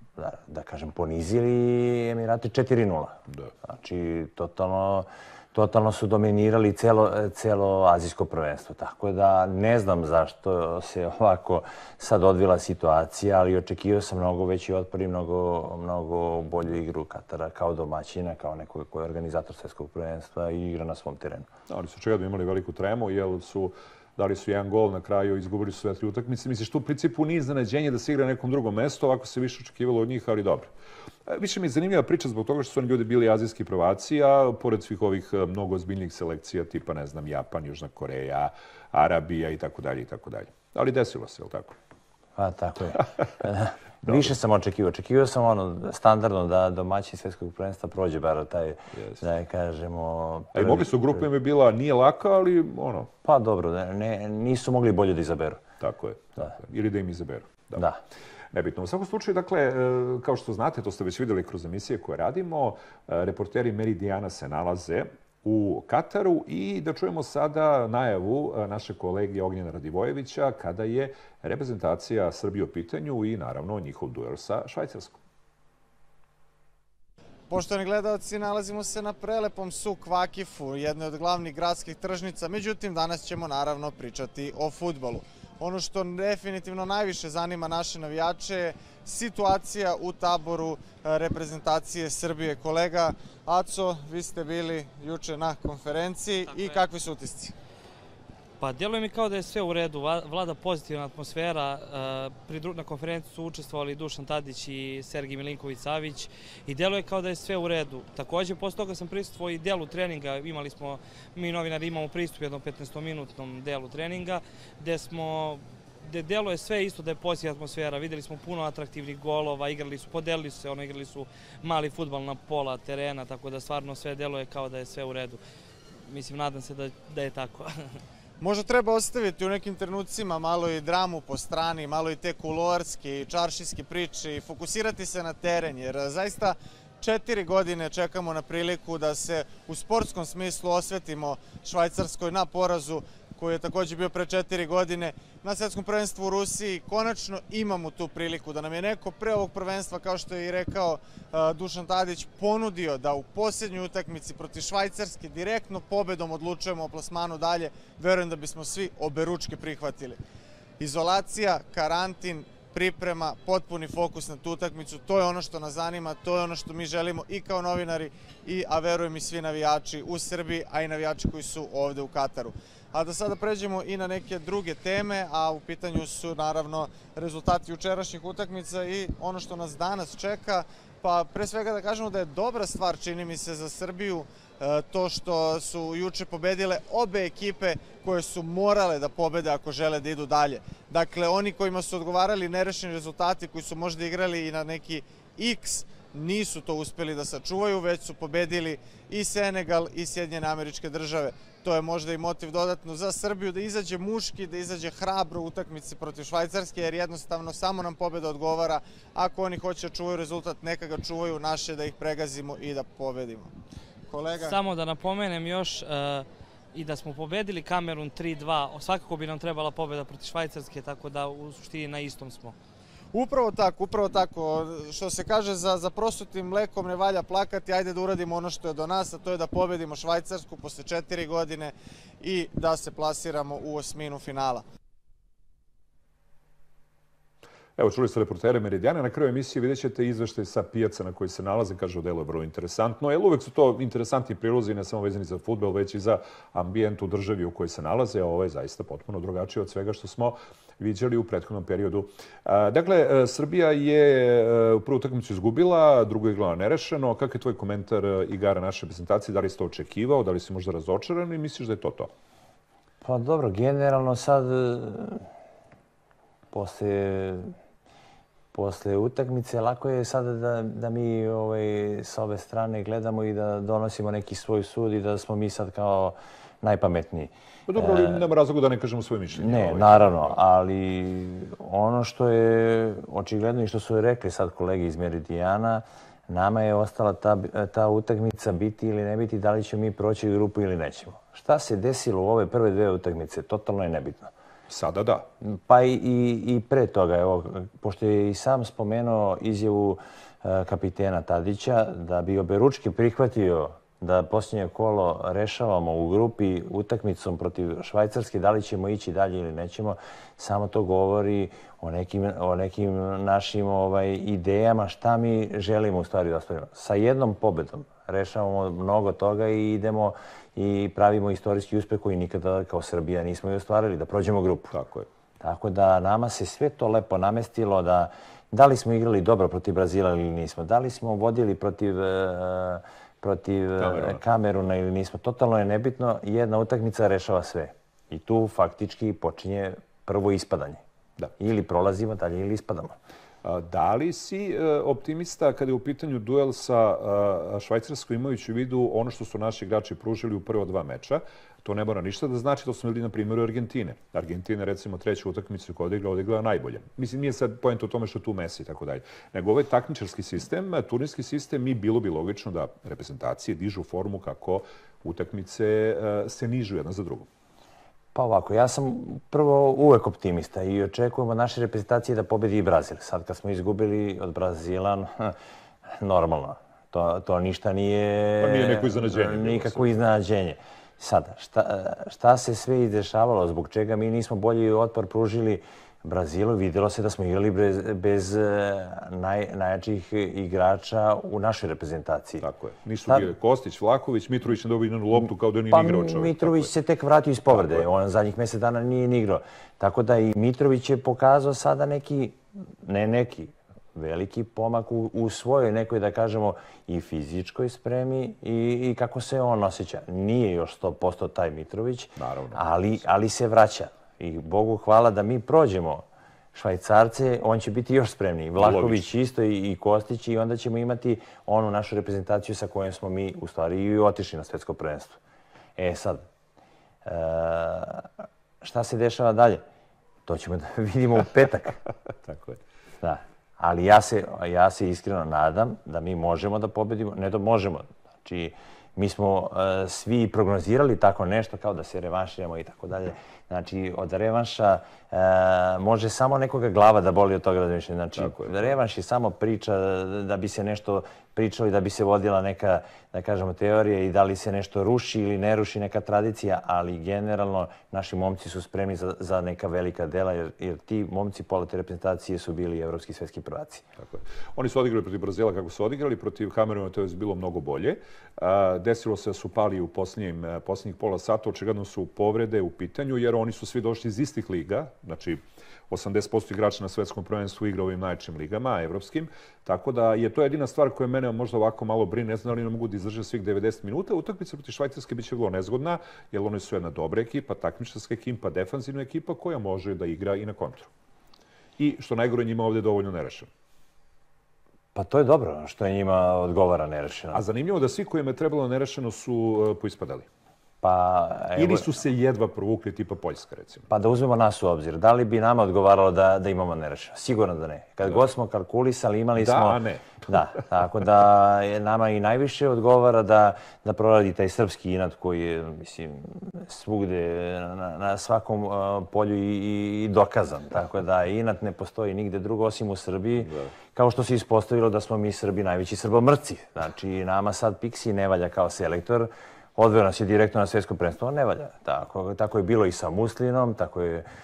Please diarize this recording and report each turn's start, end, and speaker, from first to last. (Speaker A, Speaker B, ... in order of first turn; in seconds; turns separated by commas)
Speaker A: 0.2-21.5, Speaker B: 21.7-30.7, Speaker B: 31.3-41.7, Speaker A: 42.4-51.2, Speaker B: 44.0-44.3, Speaker B: 50.5-53.1, Speaker A: 53.2-55.6, Speaker B: 55.8-57.8, Speaker B: 58.5-75.1, Speaker C: 77.5-97.5, Speaker D: 98.6-125.4, Speaker D: 126.0-127.9, Speaker C: 128.4-160.2, Speaker C: 160.8-213.5, Speaker C: 214.1-214.6, Speaker D: 214.4-222.5, Speaker C: 223.1-234.6, Speaker B: 237.8-262.1, Speaker A: 263.0-265.3, Speaker A: 266.5-267.5, Speaker A: 268.5-278.2, Speaker B: 277.7-280.4, Speaker A: 279.4-294.3, Speaker B: 294.7-295.3, Speaker A: 295.4-324.7, Speaker B: 324.7-325.1, Speaker A: 325.4-340.8, Speaker B: 333.8-334.2, Speaker A: 341.4-342.9, Speaker B: 343.4-367.3, Speaker A: 368.1-375.4, Speaker A: 376.0-392.4, Speaker B: 378.4-379.9, Speaker B: 392.4-396.7, Speaker A: 395.7-425.2, Speaker B: 397.5-397.8, Speaker B: 412.2-412.6, Speaker B: 418.6-419.1, Speaker A: 425.8-426.3, Speaker A: 427.0-429.6, Speaker A: 430.3-431.8, Speaker B: 432.2-432.6, Speaker A: 433.0-463.8, Speaker B: 448.1-448.7, Speaker B: 464.0-490.9, Speaker B: 491.8-493.5, Speaker A: 494.9-497.4, Speaker B: 497.3-500.3, Speaker A: 500.8-501.9, Speaker B: 501.6-503.9, Speaker A: 503.9-534.3, Speaker B: 509.4-510.2, Speaker B: 523.4-523.7